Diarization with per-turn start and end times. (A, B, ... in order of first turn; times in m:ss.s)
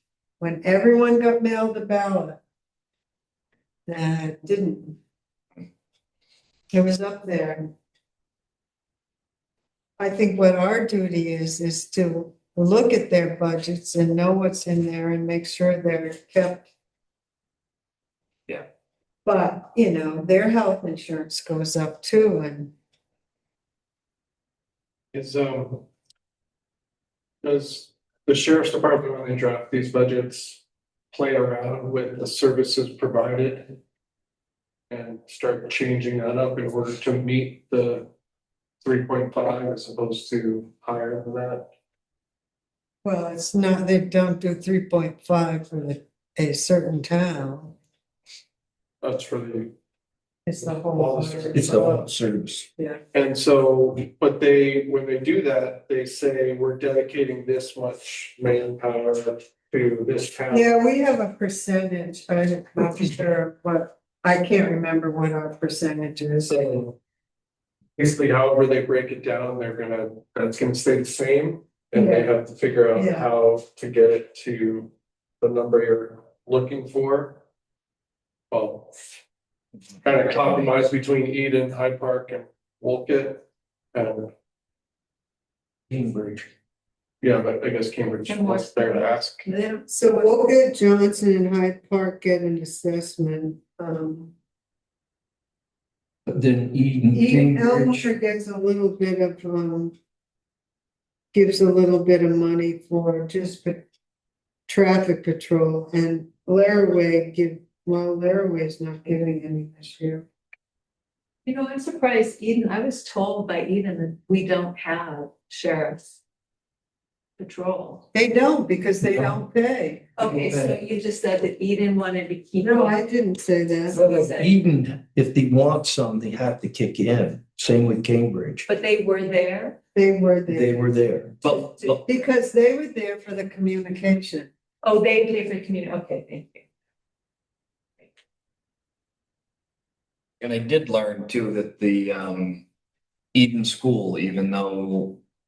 0:00.4-0:02.4 A
0:03.9-0:05.0 A
0:06.7-0:07.7 A
0:10.0-0:16.6 A
0:19.2-0:22.7 A
0:25.1-0:25.8 B
0:27.4-0:33.8 B
0:34.9-0:38.1 B
0:38.8-0:41.6 B
0:43.0-0:47.7 A
0:49.0-0:49.7 B
0:50.4-0:52.0 A
0:50.9-0:51.6 B
0:51.5-0:52.7 C
0:53.1-1:00.7 B
1:00.5-1:06.5 A
1:06.4-1:06.9 B
1:08.0-1:17.4 B
1:11.9-1:12.3 A
1:12.9-1:13.3 A
1:18.5-1:19.2 B
1:20.0-1:23.4 B
1:23.9-1:24.3 B
1:25.9-1:26.5 C
1:27.2-1:29.4 B
1:28.2-1:30.2 D
1:29.9-1:34.3 A
1:36.2-1:38.1 C
1:37.1-1:39.9 A
1:41.3-1:43.8 A
1:44.7-1:50.2 A
1:51.4-1:56.1 D
1:57.4-1:58.0 D
1:58.1-2:00.7 A
2:00.2-2:03.0 D
2:02.6-2:04.0 A
2:03.9-2:04.5 D
2:03.9-2:08.7 C
2:08.7-2:09.8 D
2:09.9-2:10.8 A
2:10.5-2:11.4 C
2:11.4-2:12.0 E
2:11.9-2:14.5 A
2:14.8-2:16.6 D
2:20.4-2:22.6 E
2:23.3-2:25.2 E